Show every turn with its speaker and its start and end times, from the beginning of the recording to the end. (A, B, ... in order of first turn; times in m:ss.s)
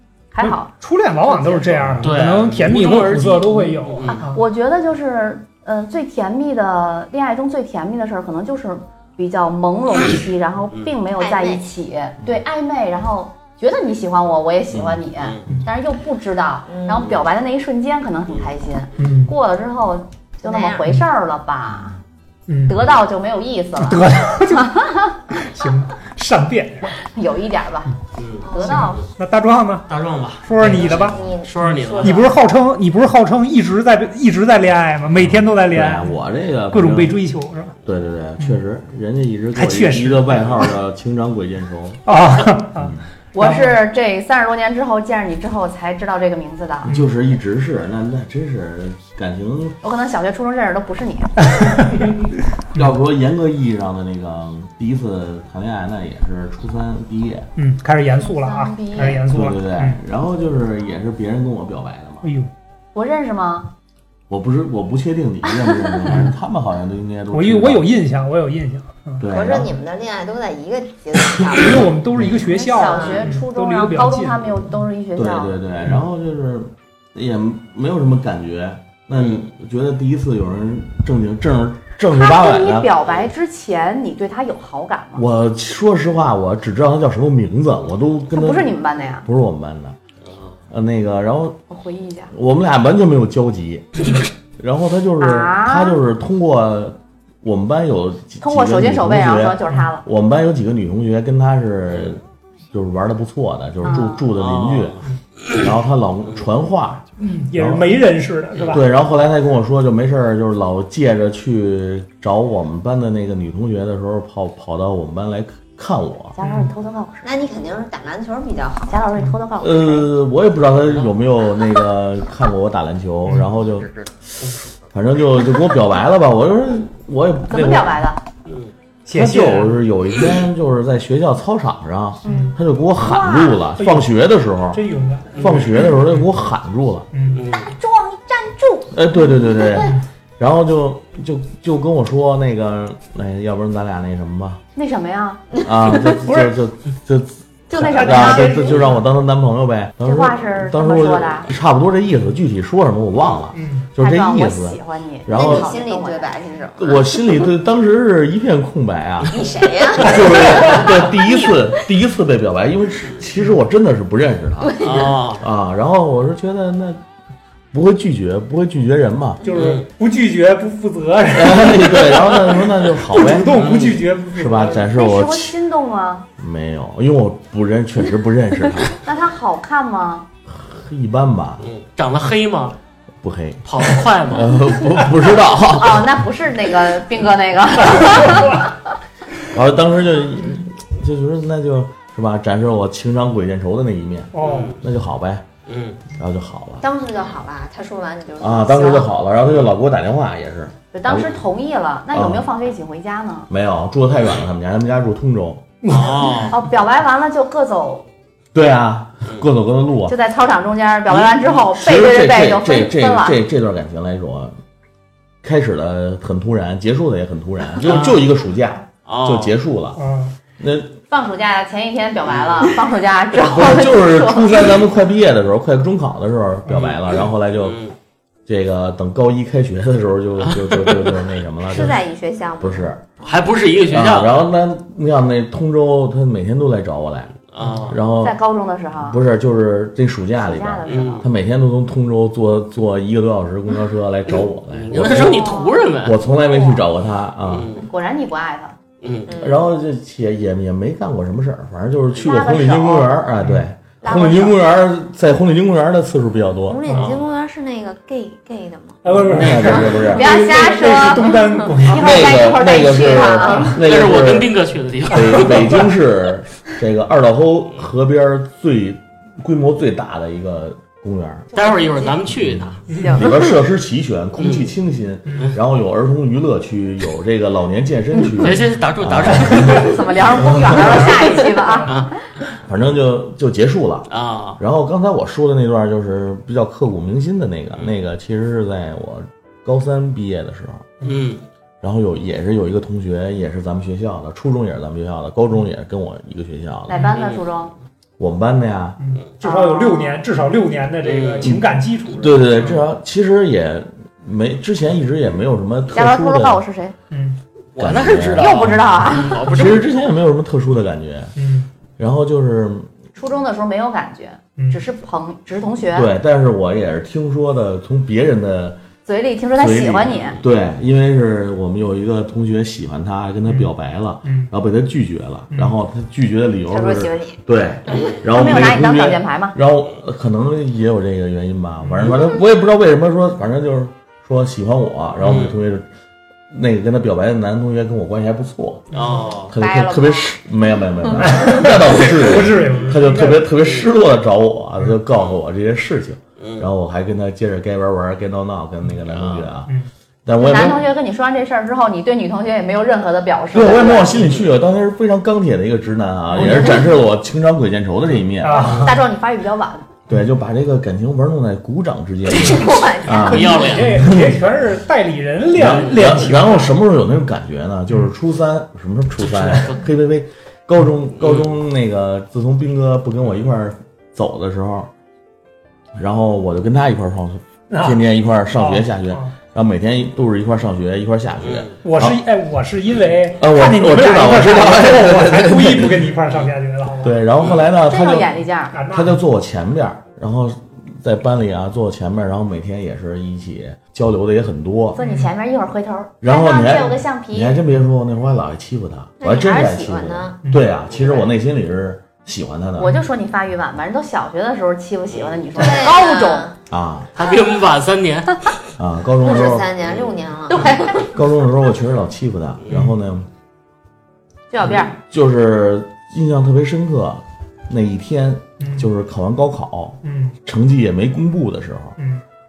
0:00.3-0:00.7 A
0:00.4-0:04.4 B
0:01.2-0:02.0 A
0:02.0-0:04.2 C
0:04.3-0:22.0 A
0:11.2-0:11.7 D
0:14.7-0:15.6 E
0:16.7-0:17.2 D
0:19.0-0:19.4 B
0:20.4-0:20.9 D
0:22.5-0:22.8 B
0:22.7-0:25.2 A
0:23.8-0:27.0 B
0:27.1-0:29.0 A
0:28.2-0:29.0 C
0:28.4-0:28.9 D
0:28.7-0:29.9 B
0:29.9-0:32.3 C
0:30.4-0:31.2 B
0:30.6-0:32.4 D
0:32.0-0:36.1 B
0:35.2-0:37.2 E
0:36.7-0:37.8 B
0:37.8-0:42.0 E
0:39.6-0:40.6 B
0:42.1-0:43.8 B
0:42.8-0:43.0 E
0:43.3-0:47.0 A
0:46.9-0:49.8 E
0:49.8-0:51.5 A
0:51.5-0:52.1 B
0:52.7-0:57.5 E
0:57.6-1:00.0 B
0:58.2-0:59.3 A
0:59.3-1:02.3 E
1:02.2-1:02.5 B
1:03.0-1:03.7 A
1:04.3-1:07.9 E
1:05.9-1:06.1 A
1:07.3-1:09.2 B
1:09.2-1:09.8 E
1:09.3-1:12.0 D
1:11.4-1:14.6 B
1:12.4-1:15.6 A
1:12.6-1:13.3 D
1:15.2-1:22.9 E
1:19.2-1:19.4 C
1:22.1-1:25.2 A
1:25.2-1:30.0 E
1:28.3-1:29.3 A
1:30.3-1:30.5 C
1:30.7-1:31.6 E
1:31.7-1:32.3 A
1:32.3-1:45.0 E
1:35.2-1:36.0 A
1:38.4-1:40.0 A
1:43.8-1:44.3 A
1:44.4-1:45.6 C
1:45.6-1:47.9 E
1:47.2-1:48.8 B
1:48.7-1:56.4 E
1:56.4-1:57.4 A
1:56.4-1:56.7 B
1:57.2-1:59.1 D
1:58.9-2:00.1 A
1:59.6-2:08.0 E
2:07.5-2:08.2 A
2:08.5-2:08.7 C
2:09.1-2:09.8 B
2:09.1-2:14.8 E
2:12.2-2:13.6 A
2:12.3-2:12.6 B
2:13.8-2:14.1 B
2:14.7-2:16.0 B
2:15.4-2:17.1 E
2:17.1-2:17.4 B
2:17.3-2:17.7 C
2:17.5-2:20.0 A
2:18.9-2:24.6 E
2:24.8-2:25.4 A
2:25.5-2:26.1 D
2:25.6-2:35.7 E
2:27.7-2:28.8 A
2:27.8-2:28.8 B
2:30.0-2:31.5 A
2:33.5-2:33.9 B
2:34.0-2:36.4 A
2:35.3-2:37.3 D
2:36.8-2:47.0 E
2:39.3-2:41.2 D
2:44.6-2:45.2 D
2:44.8-2:45.4 C
2:47.7-2:49.5 E
2:49.4-2:52.3 B
2:49.5-2:49.8 C
2:51.3-2:53.8 E
2:53.1-2:54.9 B
2:53.5-2:54.0 C
2:54.3-2:55.6 E
2:54.9-2:56.3 A
2:56.4-2:58.9 E
2:59.0-3:00.3 A
3:00.5-3:01.7 E
3:01.6-3:02.8 C
3:03.2-3:06.2 E
3:03.7-3:04.6 C
3:05.7-3:08.7 A
3:09.5-3:15.5 E
3:14.3-3:14.7 B
3:14.4-3:14.8 C
3:15.7-3:16.0 C
3:16.1-3:16.8 E
3:16.8-3:19.1 D
3:18.4-3:21.4 E
3:20.9-3:23.5 A
3:22.1-3:22.5 E
3:23.5-3:25.7 E
3:25.8-3:26.5 B
3:25.9-3:26.6 C
3:26.5-3:28.1 A
3:28.5-3:30.2 E
3:30.1-3:33.4 A
3:31.1-3:34.6 E
3:35.4-3:40.0 E
3:37.8-3:38.2 C
3:39.1-3:39.6 C
3:40.0-3:40.3 B
3:40.6-3:41.0 E
3:41.1-3:44.8 A
3:42.3-3:42.7 C
3:43.4-3:47.8 E
3:47.6-3:48.0 C
3:48.5-3:52.0 E
3:50.4-3:51.2 C
3:51.7-3:53.4 D
3:52.6-3:53.0 E
3:53.2-3:54.4 C
3:53.9-3:58.4 E
3:57.5-3:58.0 C
3:58.2-3:59.2 A
3:59.0-4:07.8 E
4:00.4-4:01.3 A
4:00.9-4:01.2 C
4:04.7-4:06.2 C
4:05.0-4:06.8 A
4:07.5-4:07.9 C
4:07.8-4:08.8 A
4:09.0-4:09.4 C
4:09.3-4:09.6 D
4:09.4-4:16.8 E
4:12.2-4:13.2 A
4:14.0-4:14.6 D
4:16.7-4:19.1 D
4:16.9-4:17.2 C
4:19.0-4:22.3 B
4:19.3-4:20.2 C
4:19.3-4:20.4 E
4:20.1-4:23.8 A
4:21.9-4:31.5 E
4:23.2-4:23.8 D
4:23.8-4:25.8 C
4:31.5-4:32.8 C
4:32.3-4:41.1 E
4:32.9-4:33.2 B
4:33.0-4:33.4 D
4:34.4-4:34.7 C
4:35.3-4:35.5 B
4:38.4-4:40.0 C
4:39.6-4:42.1 A
4:41.9-4:42.1 C
4:42.7-4:50.9 E
4:44.1-4:44.6 C
4:51.0-4:51.4 C
4:51.8-4:57.0 E
4:56.9-4:57.7 A
4:57.0-4:57.4 C
4:58.2-4:59.0 E
4:59.0-5:02.8 B
4:59.4-5:00.2 A
5:01.0-5:01.5 C
5:01.4-5:06.6 E
5:05.9-5:07.0 A
5:07.1-5:07.4 B
5:07.8-5:09.9 C
5:07.8-5:11.3 E
5:08.4-5:09.5 A
5:11.4-5:11.7 B
5:12.0-5:12.9 E
5:13.2-5:16.1 A
5:14.6-5:14.8 B
5:15.9-5:18.8 E
5:19.1-5:20.4 A
5:19.6-5:35.9 E
5:23.5-5:23.7 B
5:24.2-5:24.5 B
5:25.5-5:25.8 B
5:26.7-5:27.4 D
5:28.3-5:29.6 A
5:31.8-5:32.2 B
5:35.2-5:35.6 C
5:36.5-5:49.7 E
5:38.9-5:39.5 C
5:38.9-5:39.3 B
5:39.5-5:40.3 D
5:41.2-5:43.5 B
5:46.4-5:46.7 C
5:49.1-5:49.5 C
5:50.2-5:50.9 E
5:50.4-5:54.2 A
5:53.5-5:58.8 E
5:54.2-5:54.5 C
5:56.4-5:56.8 B
5:58.4-5:59.0 B
5:58.5-5:59.9 A
6:00.1-6:04.4 E
6:02.3-6:03.8 D
6:03.1-6:04.1 C
6:03.2-6:06.7 B
6:05.5-6:14.9 E
6:09.3-6:09.8 C
6:11.2-6:11.5 C
6:16.0-6:22.2 E
6:17.7-6:18.0 B
6:18.6-6:19.3 B
6:21.4-6:21.8 C
6:21.8-6:27.2 B
6:23.4-6:26.2 E
6:27.0-6:28.3 E
6:27.8-6:28.8 A
6:28.7-6:29.2 B
6:28.9-6:35.0 E
6:35.0-6:37.6 A
6:35.0-6:35.3 B
6:36.2-6:42.9 E
6:39.2-6:40.4 D
6:42.8-6:46.5 A
6:45.5-6:46.6 D
6:46.7-6:47.1 E
6:47.2-6:48.6 C
6:48.8-6:49.7 E
6:49.2-6:51.1 D
6:50.5-6:51.0 A
6:51.0-6:53.3 E
6:54.5-6:54.9 A
6:54.7-7:02.0 E
6:58.6-6:58.9 B
7:00.0-7:00.4 B